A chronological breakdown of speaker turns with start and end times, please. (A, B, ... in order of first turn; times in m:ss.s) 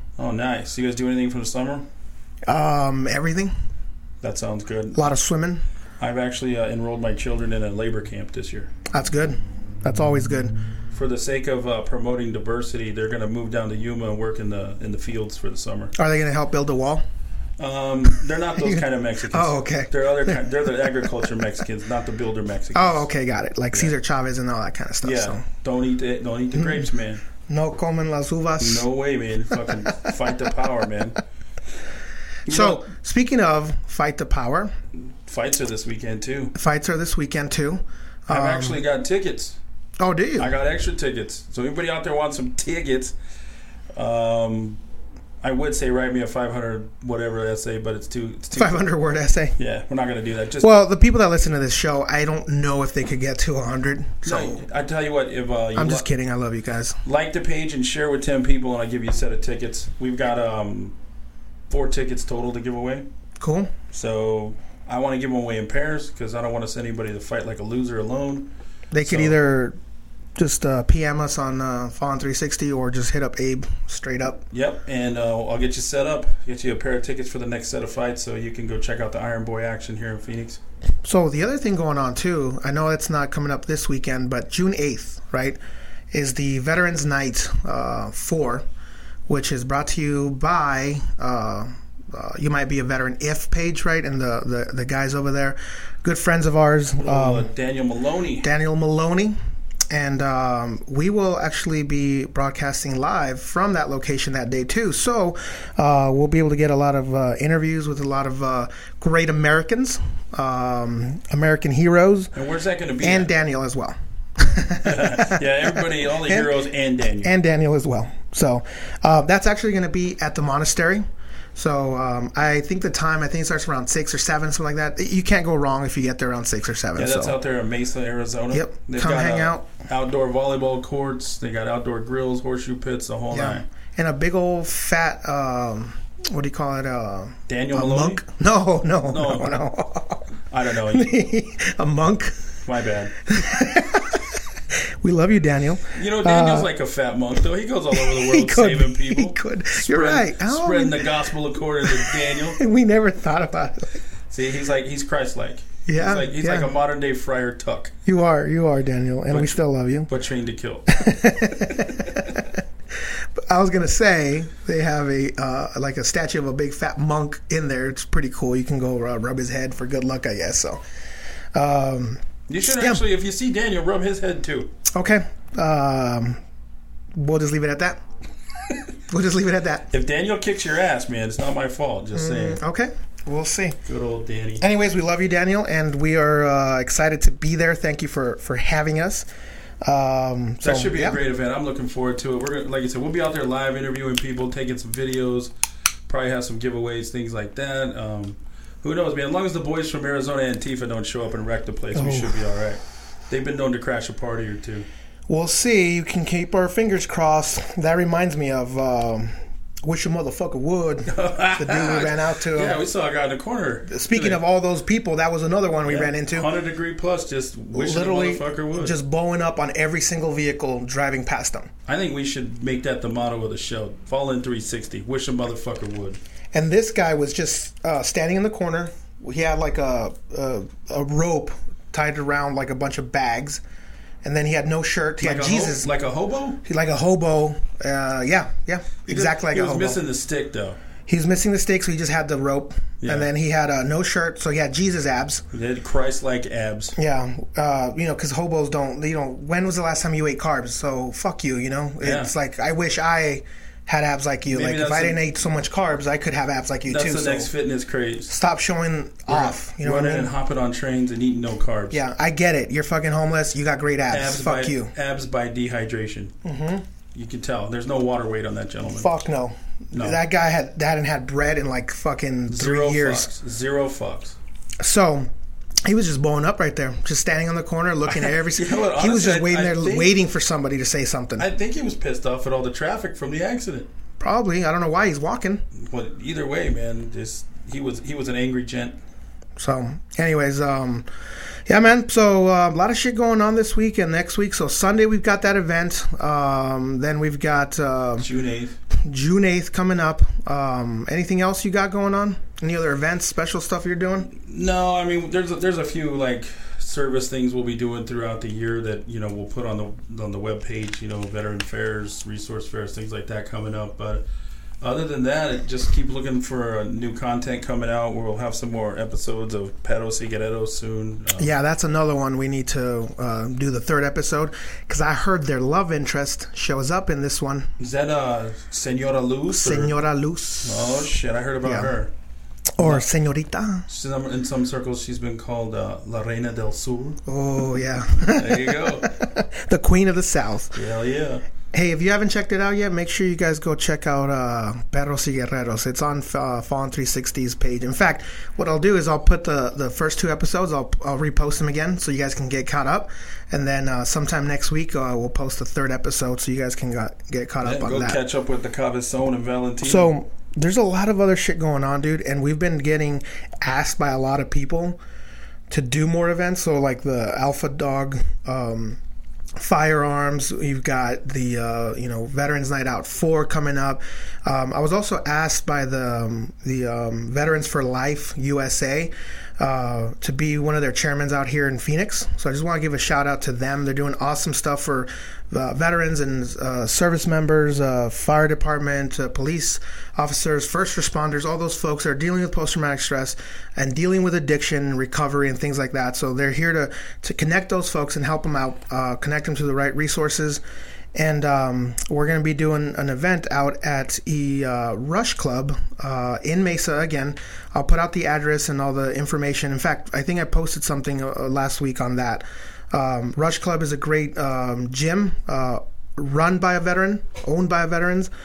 0:00.2-0:01.8 A
0:02.5-0:03.5 B
0:04.2-0:05.0 A
0:04.9-0:05.6 B
0:06.0-0:08.7 A
0:08.9-0:10.5 B
0:10.9-0:15.9 A
0:15.9-0:17.0 B
0:17.6-0:23.1 A
0:18.6-0:20.4 B
0:22.7-0:25.4 B
0:25.0-0:27.2 A
0:26.6-0:26.8 B
0:27.5-0:28.8 B
0:28.6-0:31.2 A
0:32.4-0:32.8 A
0:32.5-0:34.7 B
0:35.1-0:36.5 A
0:36.5-0:38.8 B
0:38.3-0:39.6 A
0:40.0-0:40.5 B
0:40.4-0:43.1 A
0:43.9-0:44.8 A
0:45.4-0:48.8 A
0:48.5-0:49.6 B
0:49.6-0:50.7 A
0:50.6-0:54.6 B
0:54.2-0:56.1 A
0:55.7-0:57.0 B
0:57.0-1:01.0 A
1:01.7-1:03.0 A
1:03.4-1:03.7 B
1:03.9-1:08.5 A
1:08.9-1:09.8 B
1:09.0-1:09.4 A
1:10.4-1:14.4 B
1:14.5-1:20.6 A
1:21.0-1:25.6 B
1:26.1-1:28.6 B
1:29.3-1:37.5 B
1:37.0-1:38.5 A
1:38.4-1:39.4 B
1:39.9-1:52.3 B
1:52.3-1:53.3 A
1:53.0-1:56.5 B
1:54.8-1:57.3 A
1:57.2-2:01.0 B
2:01.5-2:07.3 B
2:07.0-2:13.6 A
2:08.5-2:09.7 B
2:13.3-2:20.2 B
2:17.5-2:18.2 A
2:19.1-2:19.5 A
2:20.5-2:21.1 A
2:20.9-2:22.5 B
2:22.6-2:23.1 A
2:23.2-2:26.7 B
2:25.9-2:32.6 A
2:27.9-2:31.1 B
2:31.8-2:34.0 B
2:34.3-2:37.9 A
2:35.8-2:36.7 B
2:38.0-2:40.1 B
2:39.3-2:41.0 A
2:40.9-2:42.6 B
2:43.4-2:50.8 B
2:51.5-2:53.0 B
2:52.5-2:54.7 A
2:54.9-2:56.4 B
2:57.1-2:58.0 B
2:59.1-2:59.9 B
2:59.9-3:02.6 A
3:02.1-3:03.8 B
3:03.8-3:04.6 A
3:04.6-3:09.3 B
3:09.8-3:11.2 B
3:10.6-3:15.5 A
3:16.1-3:24.9 A
3:21.9-3:22.4 B
3:25.3-3:32.8 B
3:31.1-3:34.4 A
3:33.9-3:36.5 B
3:35.8-3:38.9 A
3:37.7-3:41.7 B
3:41.8-3:46.2 A
3:46.5-3:53.6 B
3:54.2-3:55.9 B
3:55.2-3:56.6 A
3:56.6-4:00.0 B
3:59.1-4:00.8 A
4:01.1-4:05.4 B
4:03.0-4:03.3 A
4:05.5-4:06.9 A
4:07.0-4:17.5 B
4:12.0-4:12.3 A
4:14.5-4:15.2 A
4:16.9-4:18.3 A
4:18.3-4:20.3 B
4:19.3-4:22.0 A
4:21.9-4:24.9 B
4:24.1-4:26.3 A
4:26.4-4:26.8 B
4:27.1-4:29.1 A
4:28.9-4:33.3 B
4:29.9-4:30.2 A
4:32.5-4:34.4 A
4:34.8-4:35.3 B
4:35.8-4:41.5 B
4:38.1-4:40.1 A
4:41.4-4:43.9 A
4:44.2-4:45.6 B
4:45.7-4:49.0 A
4:49.6-4:51.0 B
4:51.7-4:58.3 B
4:58.2-4:58.8 A
4:59.0-5:04.3 B
5:04.3-5:14.2 A
5:14.8-5:21.5 A
5:21.4-5:27.7 B
5:27.8-5:29.9 A
5:29.5-5:31.1 B
5:30.6-5:32.1 A
5:31.6-5:31.9 B
5:32.8-5:33.8 B
5:32.8-5:33.0 A
5:33.9-5:37.2 A
5:37.2-5:40.7 B
5:38.1-5:39.1 A
5:40.7-5:41.4 A
5:41.7-5:58.2 B
5:57.6-6:00.1 A
5:59.8-6:05.0 B
6:05.7-6:09.0 B
6:09.6-6:40.6 B
6:41.1-6:58.3 B